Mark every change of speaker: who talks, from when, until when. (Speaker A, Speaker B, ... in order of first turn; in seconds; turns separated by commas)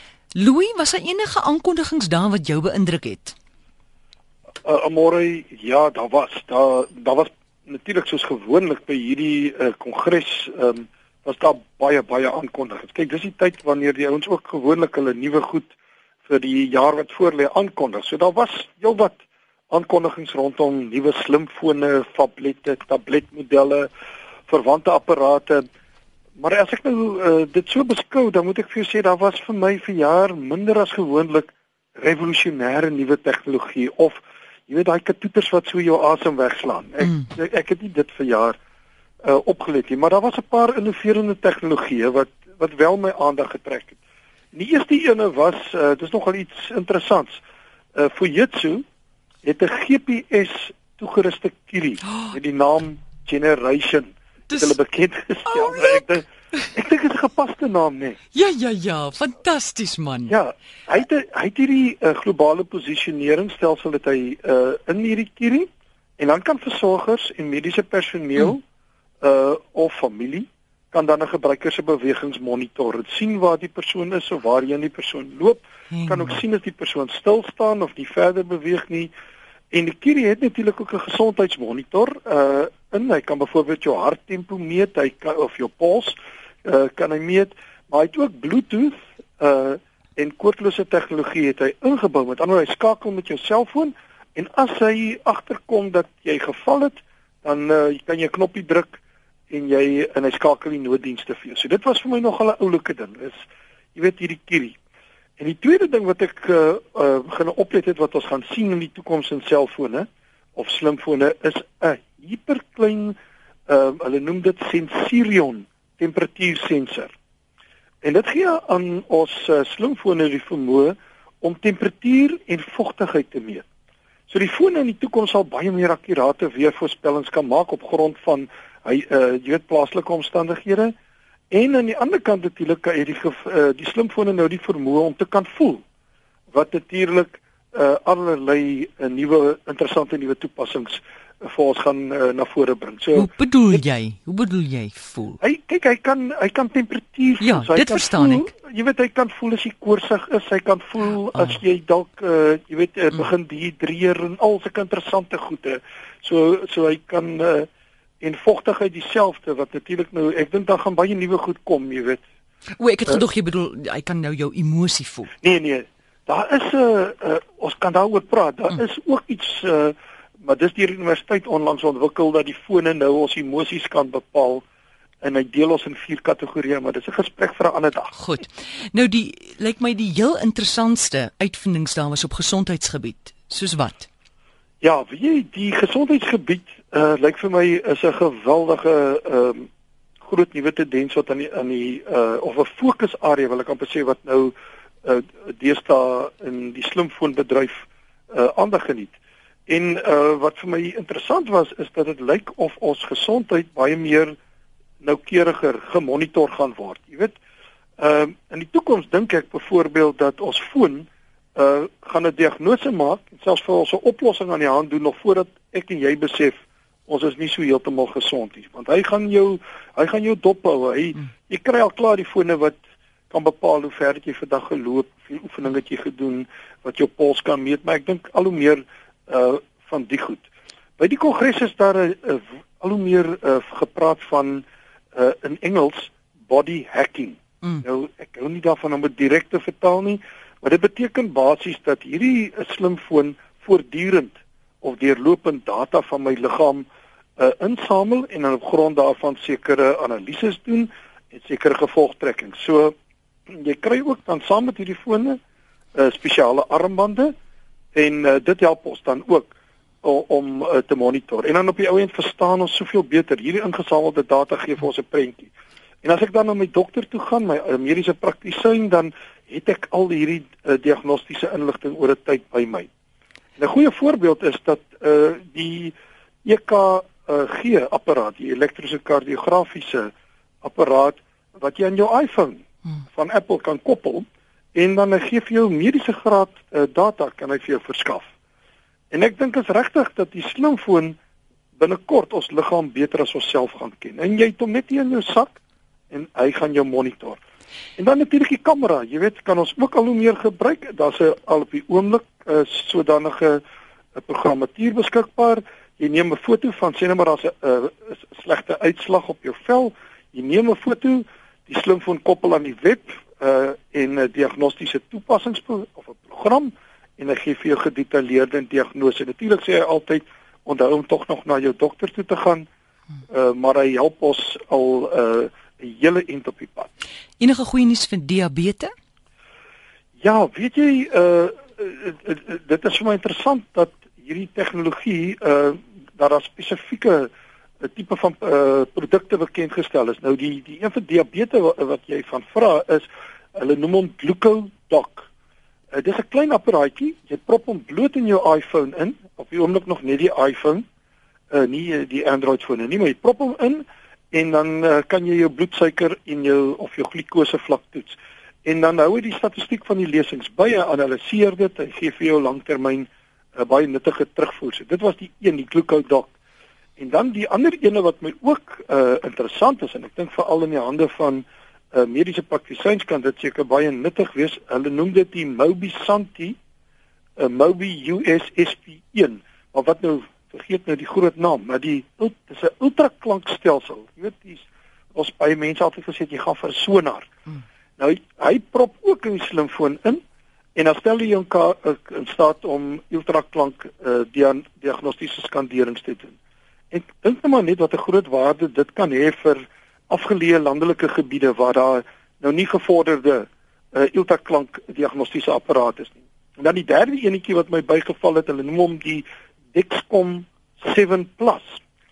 Speaker A: 0.3-3.4, Speaker B: 4.6-15.7, Speaker B: 16.2-19.1, Speaker B: 19.7-23.9, Speaker B: 24.5-25.6, Speaker B: 26.4-38.5, Speaker B: 39.2-44.0, Speaker B: 44.5-47.4, Speaker B: 48.0-48.8, Speaker B: 49.4-58.2, Speaker A: 54.5-54.8, Speaker A: 55.5-56.0, Speaker A: 58.3-60.3, Speaker B: 60.3-68.6, Speaker B: 69.2-79.1, Speaker A: 75.9-76.3, Speaker B: 79.7-103.4, Speaker B: 103.9-104.8, Speaker B: 105.4-117.1, Speaker B: 118.0-123.7, Speaker B: 124.3-130.9, Speaker B: 131.5-135.8, Speaker B: 136.5-143.8, Speaker A: 143.1-145.4, Speaker B: 145.4-157.7, Speaker A: 147.4-148.5, Speaker B: 158.2-162.2, Speaker A: 162.8-165.3, Speaker B: 165.4-174.6, Speaker B: 175.2-178.2, Speaker A: 178.2-184.1, Speaker B: 184.8-189.7, Speaker B: 190.2-199.2, Speaker B: 199.7-204.3, Speaker B: 205.0-207.3, Speaker B: 208.0-222.8, Speaker B: 223.3-230.4, Speaker B: 231.0-246.9, Speaker B: 247.4-252.9, Speaker B: 253.5-255.4, Speaker B: 255.9-257.3, Speaker B: 257.9-259.5, Speaker B: 260.0-265.5, Speaker B: 266.0-272.9, Speaker B: 273.6-288.3, Speaker B: 289.1-291.2, Speaker B: 291.8-295.6, Speaker B: 296.1-297.4, Speaker B: 298.0-303.6, Speaker B: 304.1-322.7, Speaker B: 323.3-326.9, Speaker A: 327.4-328.9, Speaker B: 330.2-337.3, Speaker B: 337.8-345.3, Speaker B: 345.9-350.9, Speaker B: 351.5-366.3, Speaker B: 367.0-376.6, Speaker B: 377.4-387.3, Speaker B: 388.0-390.2, Speaker B: 390.8-396.4, Speaker B: 396.9-411.6